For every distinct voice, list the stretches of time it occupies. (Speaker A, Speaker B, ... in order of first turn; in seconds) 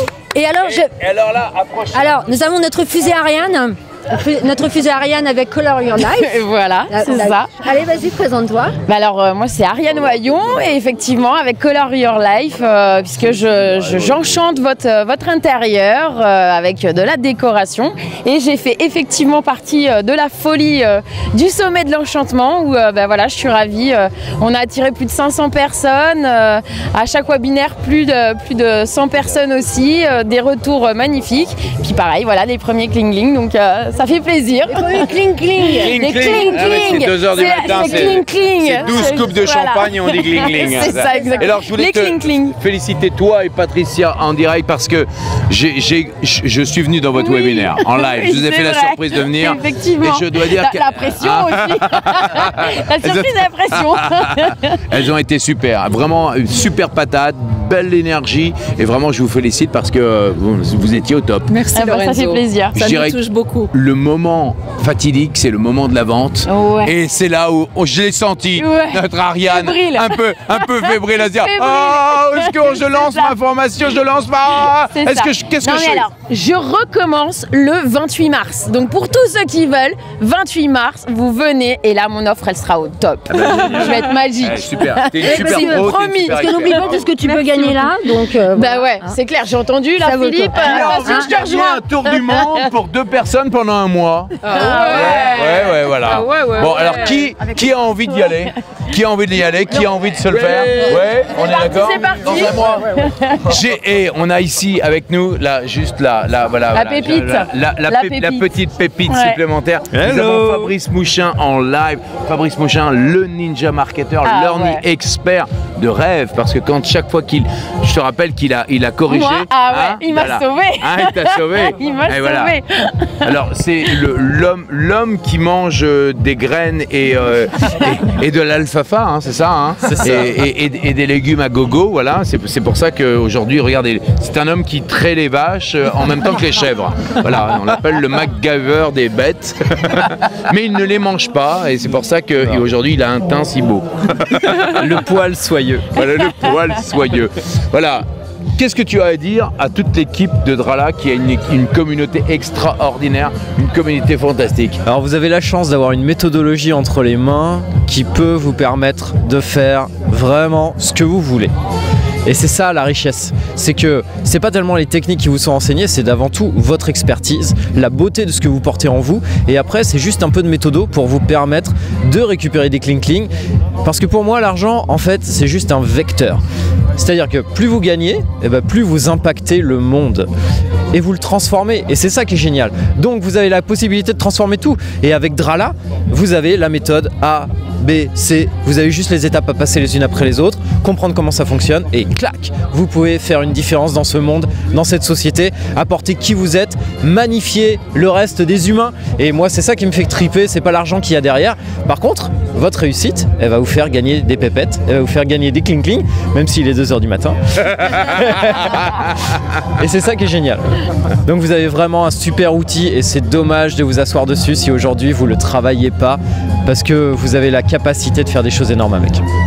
Speaker A: 0.3-0.9, 1.9-6.3, 6.9-8.7, 34.7-36.6, 37.6-38.0, 40.8-41.5, 85.2-89.2, 90.0-91.4
Speaker B: 0.7-2.1, 35.6-61.5, 62.8-76.1, 83.3-87.0, 90.6-122.5, 123.2-144.9, 145.9-148.1, 148.6-154.8
Speaker C: 6.0-7.5, 8.9-42.6, 47.1-54.8, 61.7-62.8, 66.5-66.9, 68.6-73.3, 74.6-87.9, 88.5-92.7, 94.4-97.5, 98.1-98.5, 100.3-103.5, 106.7-108.5, 109.1-109.4, 114.2-114.8, 119.1-123.9
Speaker D: 61.5-63.7, 94.5-95.1
Speaker E: 109.9-110.7, 129.9-130.2, 144.5-145.9, 154.8-161.5, 162.2-173.3, 173.8-176.4, 176.9-180.3, 180.9-209.1, 209.6-210.7, 211.2-219.2